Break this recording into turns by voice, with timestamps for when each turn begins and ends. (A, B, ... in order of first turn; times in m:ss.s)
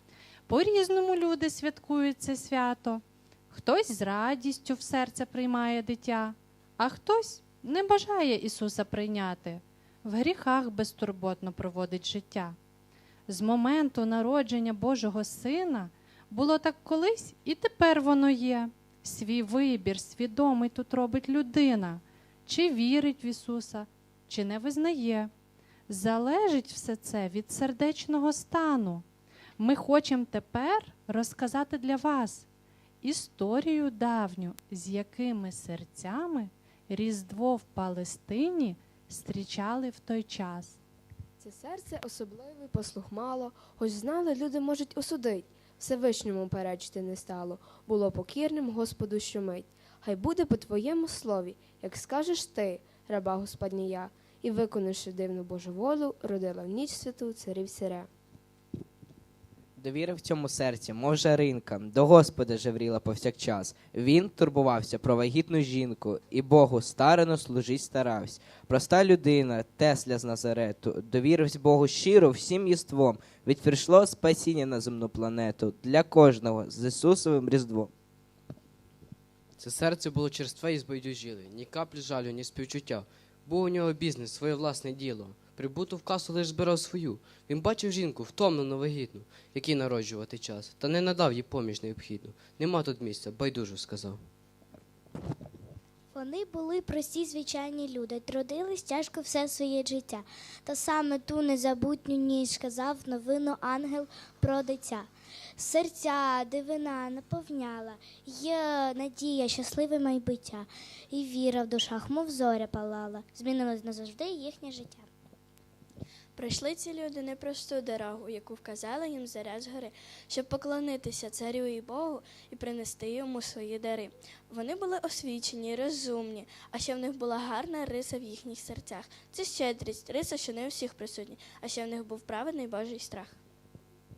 0:00.5-0:12.6 A
0:13.3-0:25.3 A
0:25.9-0:29.0 A
0:29.6-0:32.5 A
0:33.0-0:40.8 A
0:41.4-0:58.1 B
0:59.8-1:17.9 C
1:19.6-1:34.2 D
1:36.1-1:55.1 E
1:56.4-2:13.4 F